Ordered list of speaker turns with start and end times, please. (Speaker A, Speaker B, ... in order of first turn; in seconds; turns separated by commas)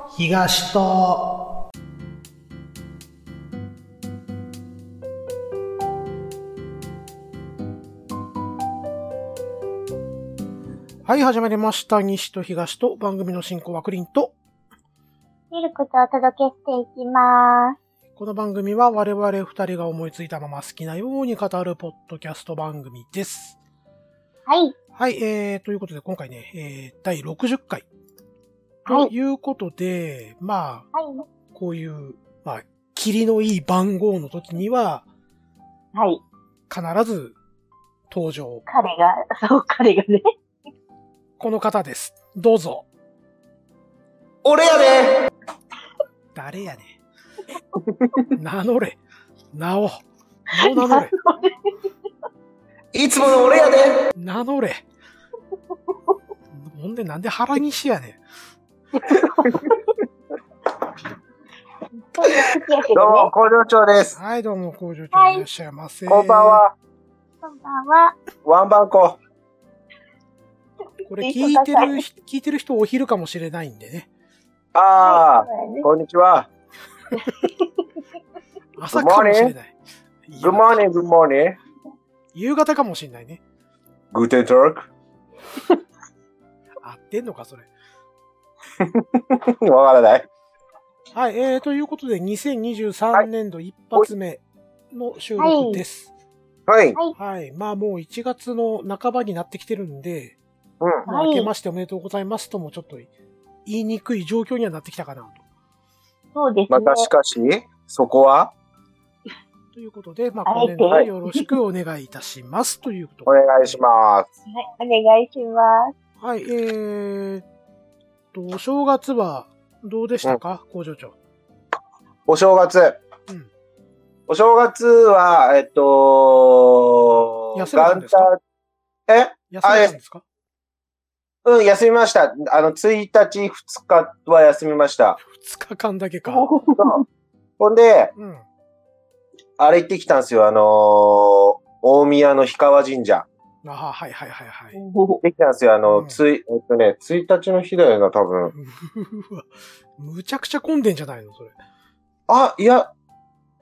Speaker A: 0.1-1.2, Speaker A: 11.1-14.3, Speaker B: 15.5-17.8, Speaker A: 18.1-23.6, Speaker B: 24.5-24.7, Speaker A: 24.9-27.9, Speaker A: 28.8-30.9, Speaker B: 30.9-31.2, Speaker A: 31.5-35.0, Speaker B: 35.9-36.2, Speaker A: 36.7-37.4, Speaker A: 38.1-38.6, Speaker B: 38.7-40.2, Speaker A: 41.4-42.8, Speaker C: 44.4-45.1, Speaker A: 46.3-46.9, Speaker C: 47.9-48.3, Speaker A: 48.4-49.0, Speaker A: 49.5-51.1, Speaker B: 50.5-51.5, Speaker C: 52.9-54.0, Speaker A: 54.1-54.8, Speaker A: 56.5-58.2, Speaker B: 59.0-59.7, Speaker B: 62.1-63.3, Speaker C: 62.9-64.2, Speaker A: 64.1-66.6, Speaker B: 65.1-65.4, Speaker C: 66.1-66.7, Speaker B: 67.4-68.2, Speaker C: 68.4-69.2, Speaker B: 71.0-72.0, Speaker A: 71.1-74.1, Speaker C: 74.7-76.5, Speaker B: 75.0-75.9, Speaker B: 77.2-77.6, Speaker A: 78.8-79.7, Speaker C: 78.9-79.5, Speaker A: 80.3-80.8, Speaker C: 80.4-81.6, Speaker A: 82.3-83.4, Speaker C: 84.1-84.9, Speaker A: 86.8-87.7, Speaker C: 88.8-90.3, Speaker A: 91.1-96.1, Speaker B: 95.4-95.8, Speaker C: 96.7-97.0, Speaker A: 97.2-100.4, Speaker A: 101.0-103.1, Speaker B: 101.1-101.5, Speaker A: 103.7-105.4, Speaker B: 106.3-107.1, Speaker C: 106.7-108.5, Speaker A: 109.7-113.8, Speaker B: 110.5-111.5, Speaker C: 113.2-114.3, Speaker B: 114.5-115.9, Speaker A: 116.2-117.4, Speaker A: 118.3-121.1, Speaker C: 122.3-123.0, Speaker C: 124.3-128.4, Speaker A: 127.5-128.3, Speaker C: 129.1-129.9, Speaker A: 129.5-130.2, Speaker C: 131.4-135.2, Speaker A: 135.2-136.5, Speaker B: 136.3-137.0, Speaker C: 137.6-138.1, Speaker A: 138.2-138.4, Speaker C: 139.6-143.2, Speaker A: 143.6-144.8, Speaker B: 144.7-145.2, Speaker C: 145.2-148.5, Speaker A: 145.9-146.2, Speaker A: 148.5-151.5, Speaker C: 152.3-152.9